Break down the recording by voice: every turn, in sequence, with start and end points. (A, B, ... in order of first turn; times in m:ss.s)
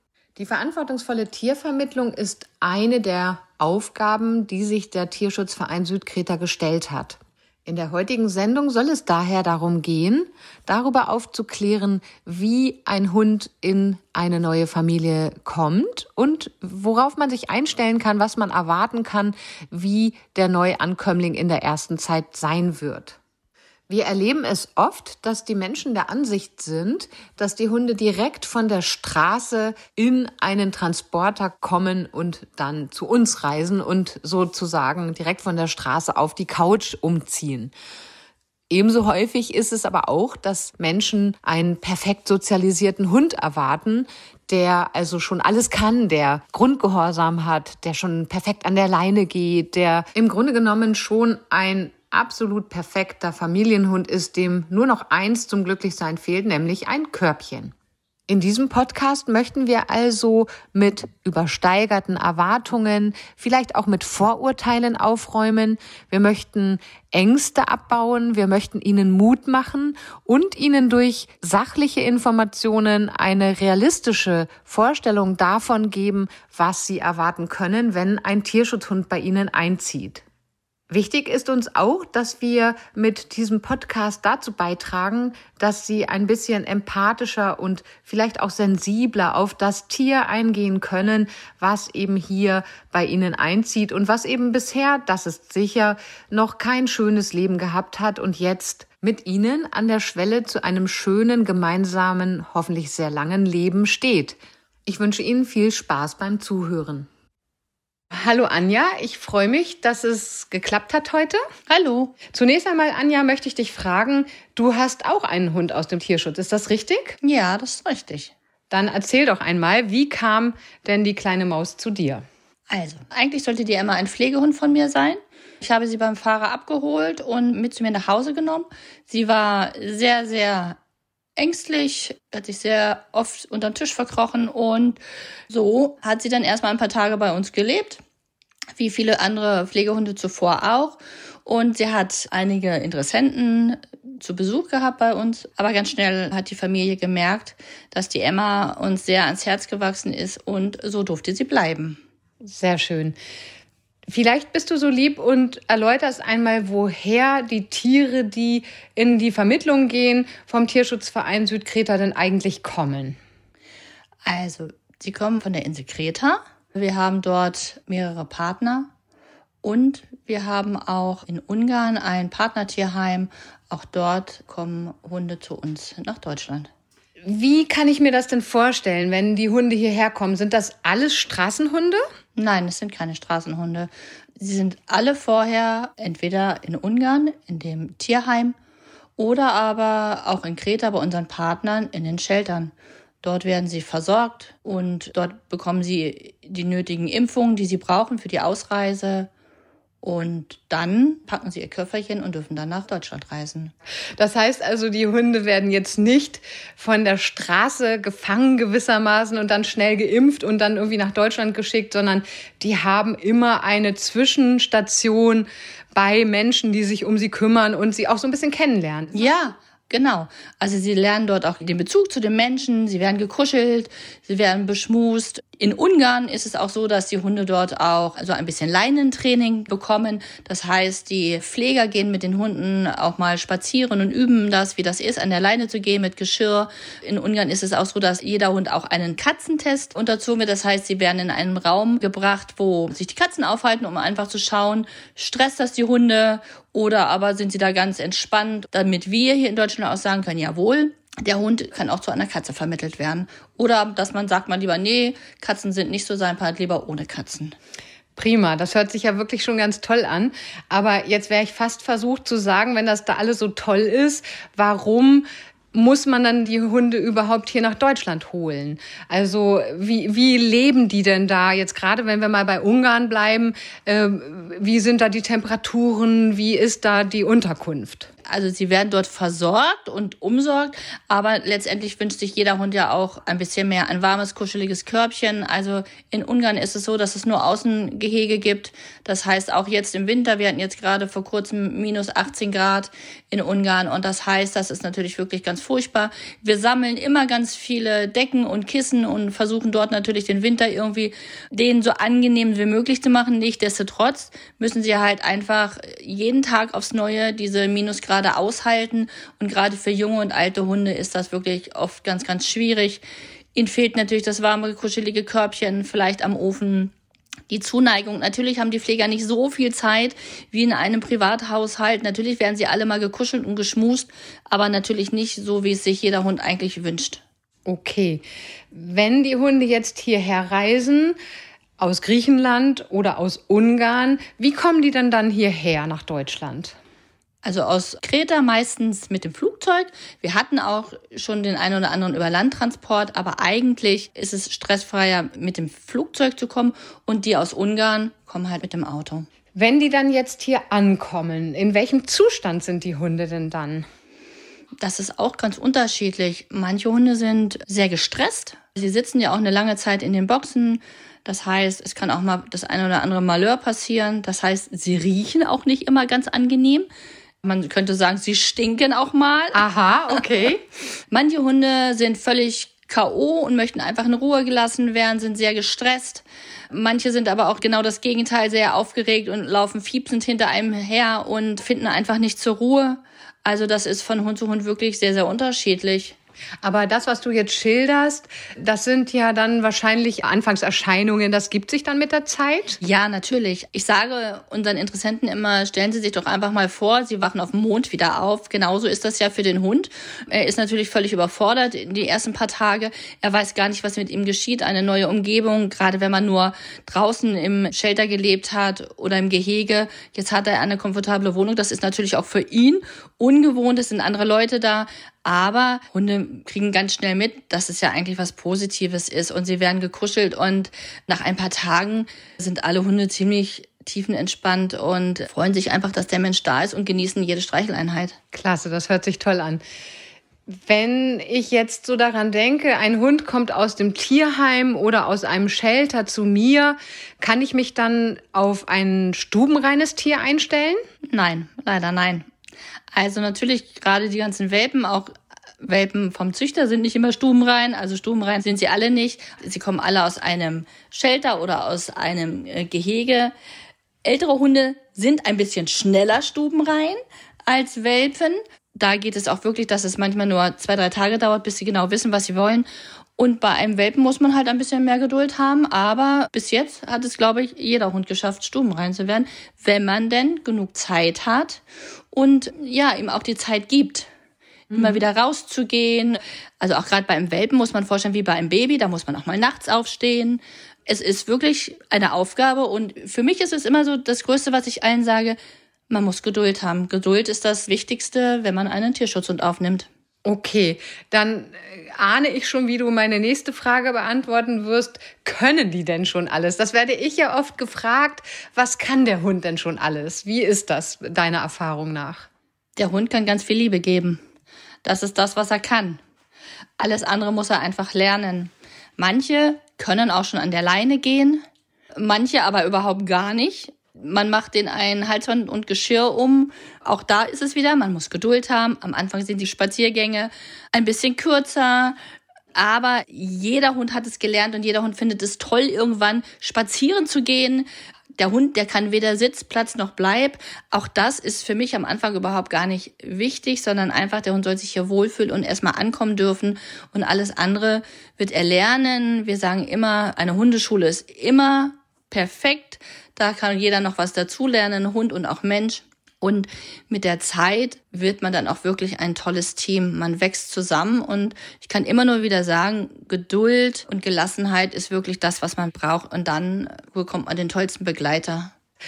0:00.4-0:23.2 A
0:23.9-0:37.7 A
0:38.7-0:57.7 A
0:58.3-1:20.2 A
1:20.9-1:47.1 A
1:48.1-1:51.4 A
1:51.7-1:52.2 B
1:52.3-1:57.2 A
1:57.2-1:58.3 B
1:58.7-2:02.2 A
2:02.7-2:10.8 B
2:11.4-2:18.0 B
2:18.8-2:32.0 B
2:32.4-2:33.2 A
2:34.1-2:43.2 A
2:44.2-2:48.9 B
2:49.6-2:56.7 B
2:57.2-3:02.0 A
3:02.4-3:08.6 B
3:09.2-3:19.3 B
3:20.0-3:23.7 B
3:24.2-3:39.3 A
3:39.1-4:17.5 B
4:18.2-4:38.1 A
4:38.3-5:13.0 B
5:13.6-5:16.9 B
5:17.5-5:27.2 B
5:27.7-5:31.2 A
5:31.8-5:36.8 A
5:37.4-5:49.3 B
5:49.5-5:53.8 A
5:54.8-6:06.9 B
6:07.4-6:09.6 B
6:09.5-6:10.6 A
6:11.1-6:26.2 B
6:26.6-6:32.8 A
6:32.8-7:08.2 B
7:08.3-7:09.6 A
7:10.5-7:20.8 A
7:21.1-7:22.3 B
7:22.9-7:25.1 B
7:25.6-7:33.3 B
7:34.0-7:54.1 B
7:54.7-8:05.4 B
7:54.7-7:55.0 A
8:05.9-8:09.9 B
8:10.2-8:22.3 A
8:22.8-8:24.2 B
8:24.8-8:26.0 B
8:26.8-8:31.4 B
8:32.0-8:42.0 B
8:42.6-9:18.5 B